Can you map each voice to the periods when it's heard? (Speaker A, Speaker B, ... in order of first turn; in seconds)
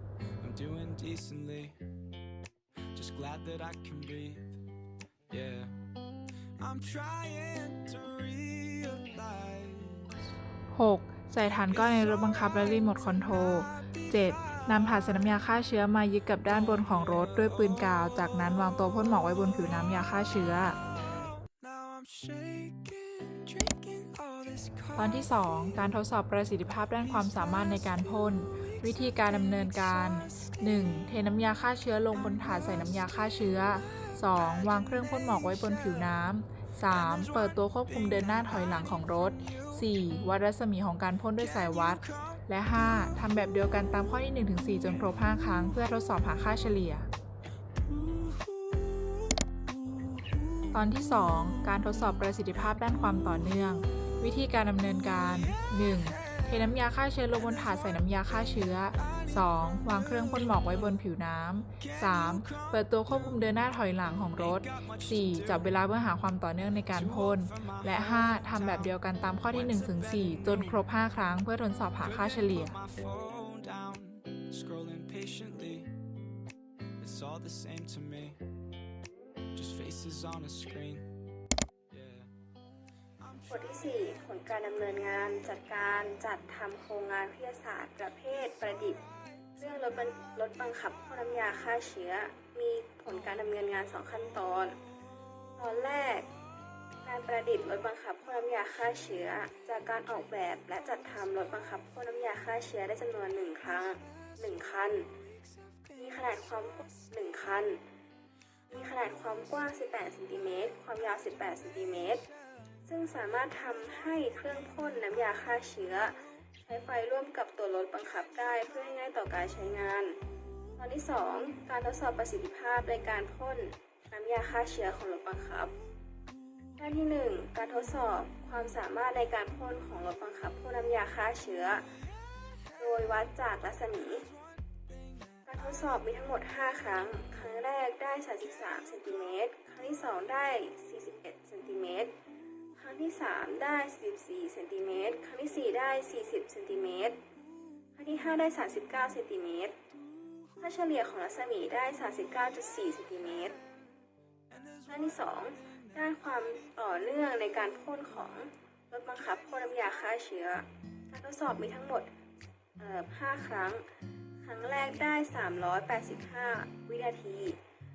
Speaker A: 0.4-1.7, 2.9-4.5, 5.3-5.7, 6.6-10.1, 21.6-25.1, 48.6-48.9, 59.0-59.3, 61.9-62.7, 64.4-65.7, 66.9-68.9, 69.5-70.8, 72.0-75.9, 77.0-78.4, 79.5-81.1, 81.9-82.3
Speaker B: 10.7-20.8, 25.0-47.1, 50.7-72.8
Speaker C: 83.5-89.0, 89.6-94.7, 95.6-96.3, 97.0-105.1, 106.0-107.8, 108.7-112.2, 112.9-120.2, 120.8-125.7, 126.8-131.8, 132.8-134.2, 135.5-142.1, 142.8-147.2, 148.0-149.7, 150.6-153.5, 154.9-162.1, 162.8-163.8, 164.4-167.6